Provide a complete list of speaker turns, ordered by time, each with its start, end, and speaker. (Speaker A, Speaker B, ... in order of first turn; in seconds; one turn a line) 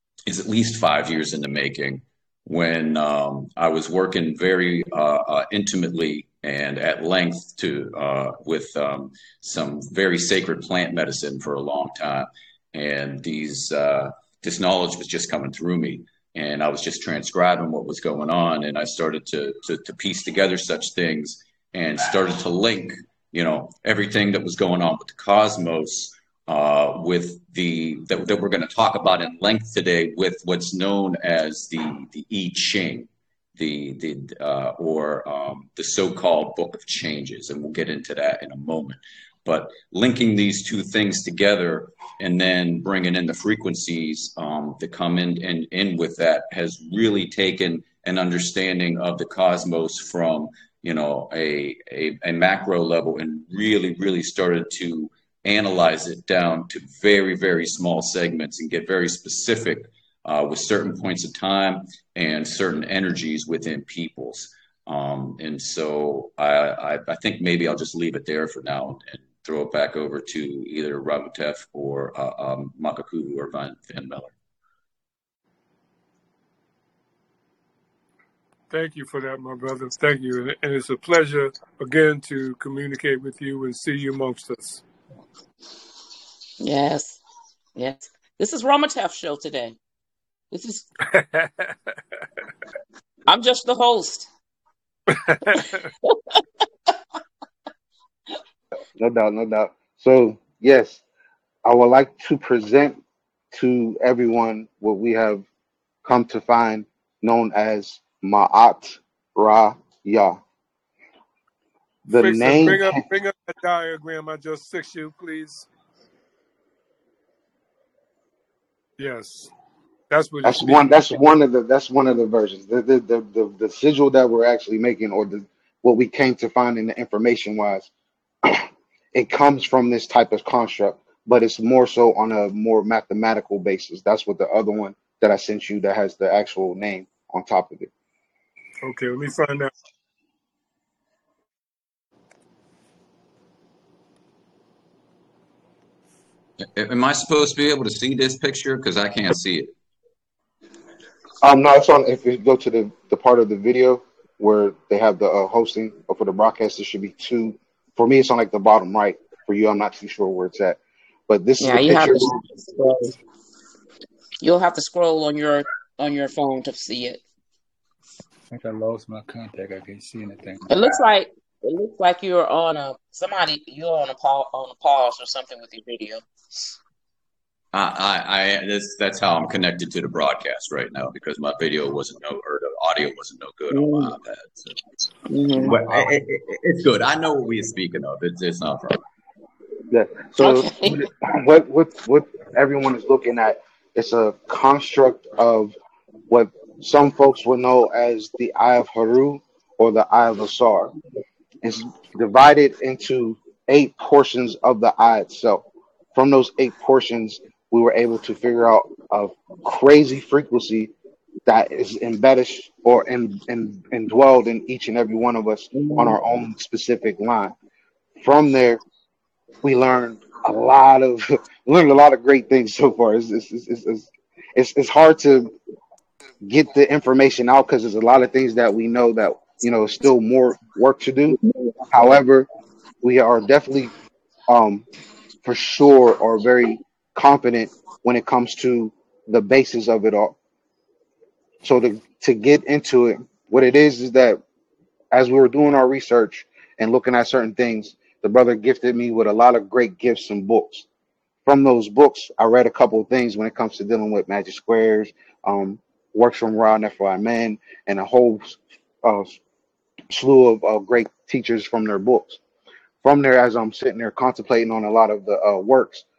Speaker A: 0.2-74.3
Speaker B: 78.7-84.8
Speaker C: 86.6-87.2
Speaker C: 87.8-89.8
Speaker C: 90.5-90.9
Speaker B: 91.1-92.0
Speaker C: 93.3-94.3
Speaker B: 95.1-95.8
Speaker C: 95.5-96.1
Speaker D: 99.0-101.0
Speaker D: 101.6-103.0
Speaker D: 103.5-105.4
Speaker D: 106.0-110.4
Speaker B: 112.0-115.7
Speaker D: 112.1-113.0
Speaker B: 119.0-119.5
Speaker B: 120.1-121.1
Speaker D: 120.4-127.9
Speaker D: 128.4-137.9
Speaker B: 138.8-139.7
Speaker A: 146.6-149.7
Speaker D: 151.4-162.4
Speaker C: 161.6-163.1
Speaker C: 164.4-167.2
Speaker E: 168.5-171.0
Speaker C: 170.7-176.7
Speaker A: 177.7-184.8
Speaker C: 183.7-184.1
Speaker C: 185.3-185.8
Speaker A: 185.6-189.0
Speaker D: 189.9-195.7
Speaker C: 190.4-191.0
Speaker D: 196.3-200.9
Speaker D: 201.6-210.9
Speaker D: 211.4-217.5
Speaker D: 218.2-218.8
Speaker D: 219.6-225.5
Speaker D: 226.4-232.5
Speaker D: 233.0-233.9
Speaker D: 234.5-234.8
Speaker D: 235.4-240.3
Speaker D: 241.6-244.4
Speaker D: 245.1-250.8
Speaker D: 251.4-259.4
Speaker D: 260.1-262.4
Speaker D: 263.0-266.0